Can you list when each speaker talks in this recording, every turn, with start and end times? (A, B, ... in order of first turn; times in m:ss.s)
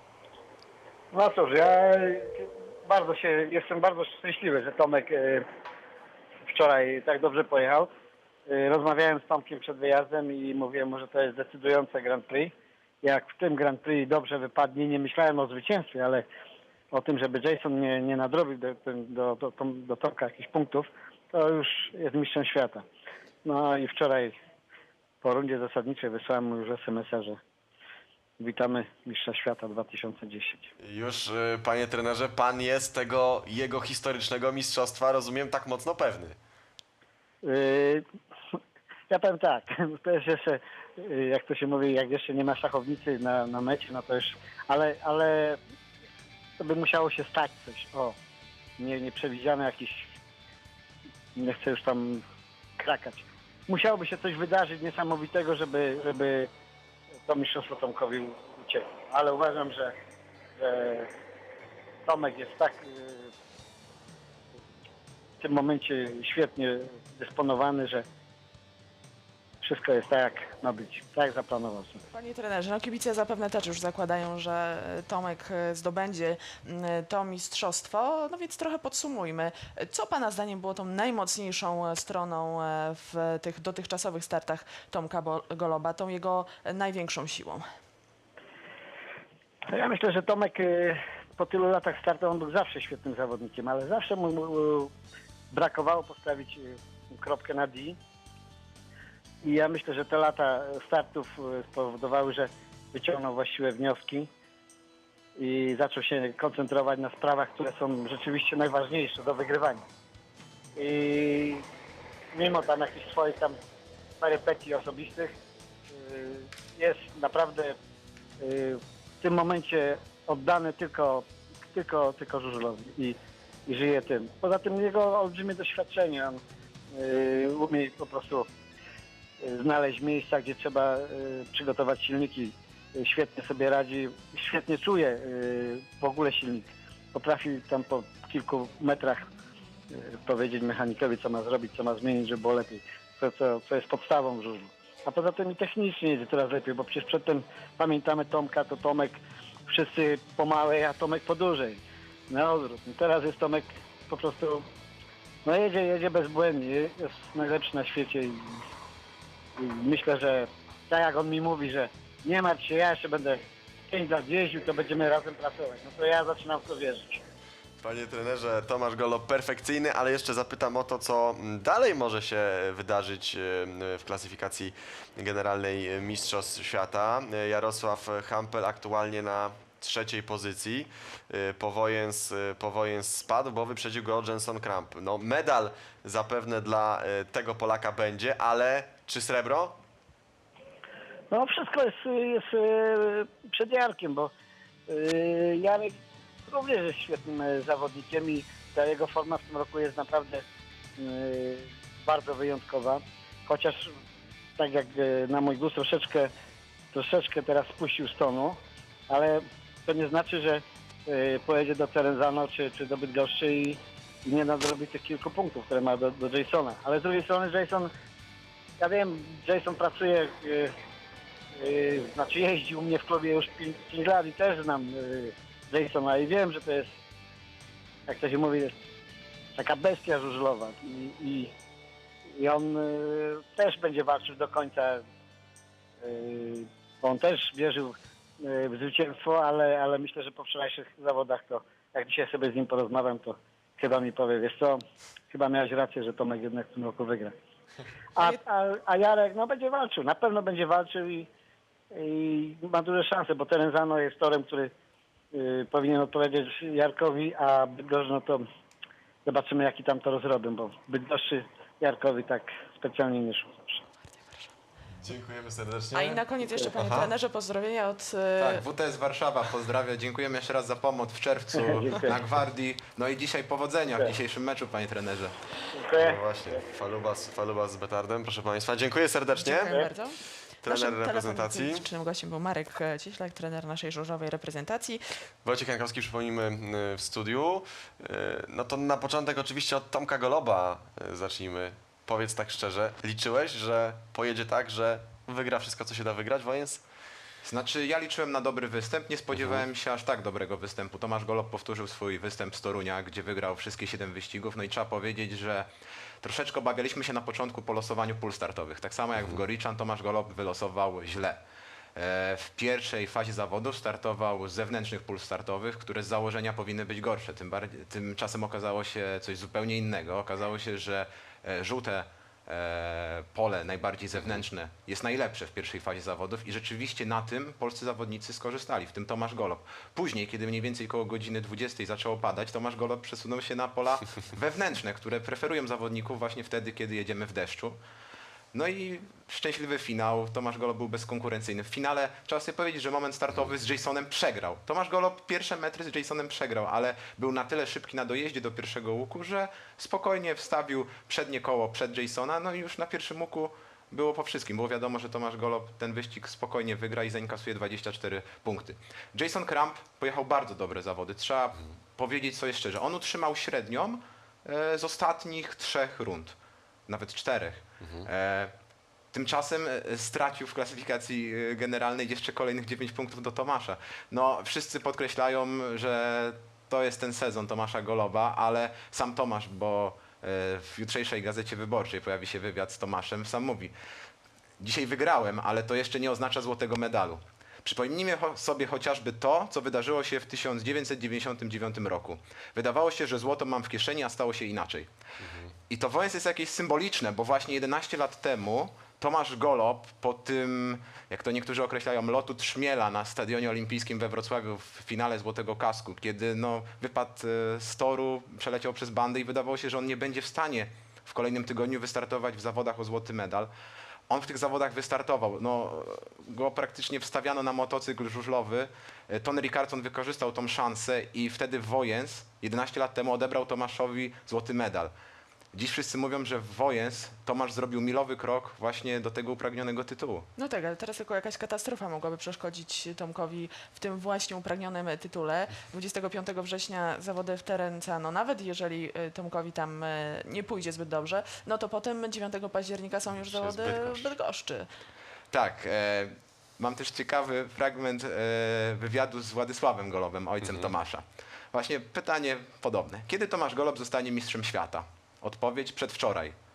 0:01.1-0:05.4 A
0:06.5-0:07.9 A
0:08.5-0:16.2 A
0:16.9-0:22.8 A
0:23.4-0:24.3 A
0:25.2-0:27.4 A
0:28.4-0:30.7 A
0:30.8-0:36.4 B
0:37.4-0:38.0 A
0:39.1-0:45.6 A
0:46.6-0:48.2 A
0:48.8-0:50.1 A
0:51.3-0:52.2 A
0:52.8-0:56.5 A
0:57.2-0:59.9 A
1:00.6-1:01.1 A
1:02.0-1:03.3 A
1:05.4-1:08.0 A
1:09.6-1:12.0 A
1:12.1-1:27.6 C
1:29.7-1:34.9 A
1:35.5-1:38.0 A
1:39.4-1:44.3 A
1:45.4-1:49.8 A
1:50.8-1:51.6 A
1:52.3-1:53.5 A
1:54.2-1:55.3 A
1:55.9-1:57.8 A
1:58.4-2:06.4 A
2:06.9-2:08.5 A
2:09.4-2:19.3 A
2:19.9-2:34.6 A
2:35.4-2:38.6 A
2:39.6-2:47.2 A
2:47.8-3:09.8 B
3:11.3-3:14.3 A
3:14.9-3:15.9 A
3:16.5-3:20.4 A
3:21.0-3:23.9 A
3:24.6-3:26.3 A
3:26.9-3:28.6 A
3:29.1-3:37.9 A
3:38.8-3:40.7 A
3:41.6-3:46.9 A
3:48.1-3:48.7 A
3:49.6-3:51.5 A
3:52.4-3:55.0 A
3:56.0-4:07.3 A
4:08.2-4:11.3 A
4:11.9-4:14.7 A
4:15.3-4:18.4 A
4:19.2-4:23.8 A
4:25.0-4:26.2 B
4:25.9-4:28.6 C
4:26.8-4:27.1 B
4:28.4-4:35.3 D
4:31.8-4:32.2 A
4:35.7-4:36.6 A
4:36.0-4:39.9 B
4:39.3-4:45.0 C
4:40.6-4:41.8 B
4:45.4-4:56.8 B
4:57.4-5:05.7 D
5:06.2-5:11.4 D
5:12.0-5:37.8 D
5:38.5-6:06.4 D
6:06.9-6:08.5 D
6:07.8-6:08.1 B
6:09.1-6:23.7 D
6:24.6-6:34.9 D
6:35.2-6:35.5 B
6:35.7-6:53.5 D
6:54.1-7:04.9 D
7:05.5-7:10.3 D
7:10.4-7:24.7 C
7:23.3-7:24.0 B
7:25.3-7:36.3 D